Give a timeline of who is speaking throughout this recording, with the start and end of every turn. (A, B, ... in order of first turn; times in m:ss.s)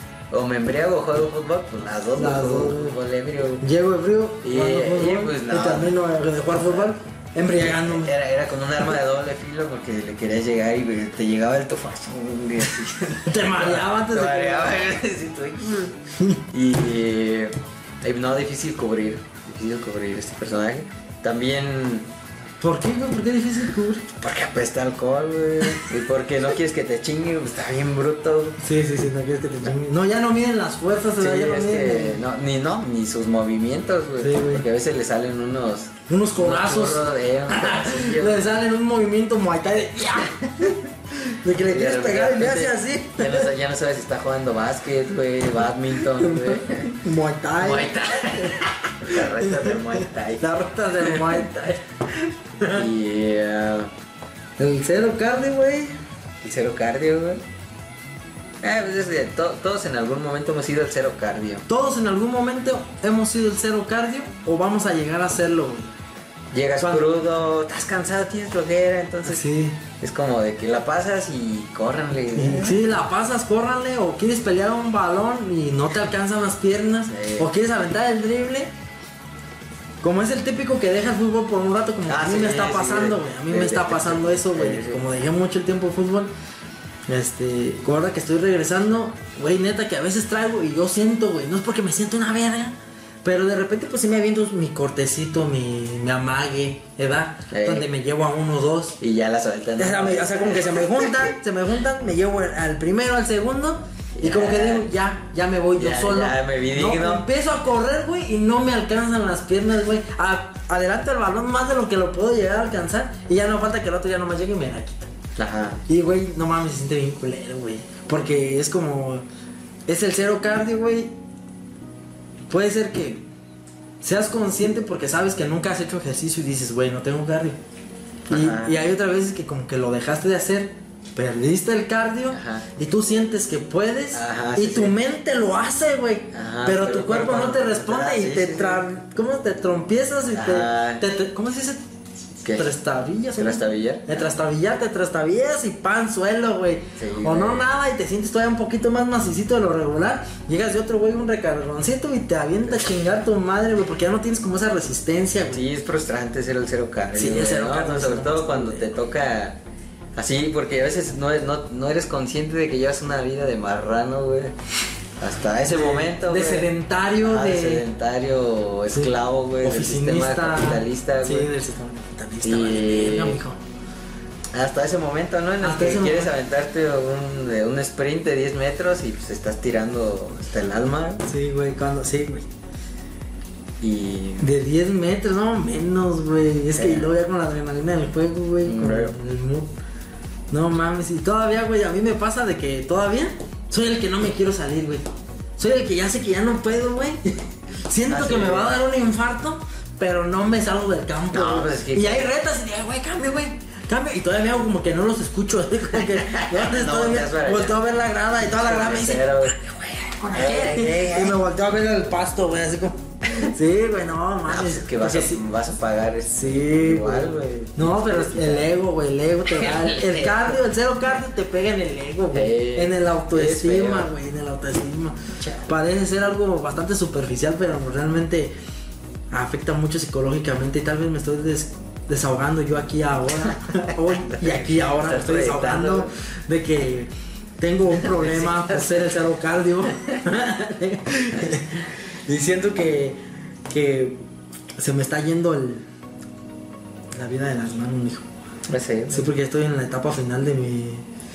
0:00.3-0:03.6 A
0:02.2-0:03.0 B
0:03.6-0:08.1 B
0:04.4-0:06.0 A
0:06.5-0:06.9 A
0:07.6-0:16.0 A
0:13.2-0:14.9 B
0:16.5-0:22.1 A
0:22.6-0:24.1 B
0:24.2-0:28.6 A
0:28.6-0:32.2 B
0:31.2-0:38.5 A
0:34.2-0:34.7 B
0:36.1-0:43.5 B
0:41.6-0:46.9 A
0:46.0-0:48.6 B
0:47.6-0:51.5 A
0:49.1-0:52.9 B
0:52.7-0:53.9 A
0:54.6-0:55.9 B
0:56.4-0:57.4 A
0:58.6-1:01.6 A
1:01.7-1:05.9 B
1:06.5-1:09.4 A
1:06.8-1:07.1 B
1:09.2-1:09.8 B
1:10.0-1:12.8 A
1:12.3-1:18.7 B
1:17.1-1:17.5 A
1:20.0-1:26.3 B
1:22.1-1:25.0 A
1:27.1-1:39.0 B
1:37.5-1:37.9 A
1:39.0-1:41.2 A
1:39.8-1:55.1 B
1:44.2-1:44.9 A
1:45.8-1:47.3 A
1:55.4-1:55.8 A
1:55.9-1:59.2 B
1:59.9-2:01.1 B
2:02.5-2:03.2 B
2:04.0-2:07.6 B
2:08.3-2:08.8 A
2:08.3-2:21.8 B
2:12.3-2:12.7 A
2:14.1-2:15.0 A
2:16.3-2:18.9 A
2:20.3-2:21.0 A
2:22.4-2:22.7 A
2:22.6-2:35.6 B
2:23.4-2:24.3 A
2:27.0-2:27.7 A
2:35.5-2:39.6 A
2:37.1-2:38.9 B
2:40.2-2:44.5 A
2:45.2-2:46.7 A
2:45.6-2:47.9 B
2:47.2-2:51.5 A
2:48.9-2:53.6 B
2:52.4-2:53.4 A
2:54.5-3:01.3 A
2:55.6-2:56.4 B
3:01.3-3:02.5 B
3:03.8-3:04.5 A
3:04.4-3:09.7 B
3:06.7-3:07.1 A
3:08.6-3:09.2 A
3:10.5-3:15.0 B
3:15.6-3:35.4 B
3:18.1-3:18.8 A
3:21.3-3:22.3 A
3:26.2-3:27.8 A
3:28.4-3:29.6 A
3:30.3-3:31.4 A
3:34.5-3:38.7 A
3:36.3-3:48.5 B
3:39.6-3:40.6 A
3:42.3-3:44.1 A
3:45.4-3:45.7 A
3:49.3-4:04.2 B
3:54.2-3:56.1 A
3:57.9-3:59.3 A
4:04.8-4:05.9 B
4:07.1-4:08.3 B
4:08.7-4:09.3 A
4:09.1-4:11.0 B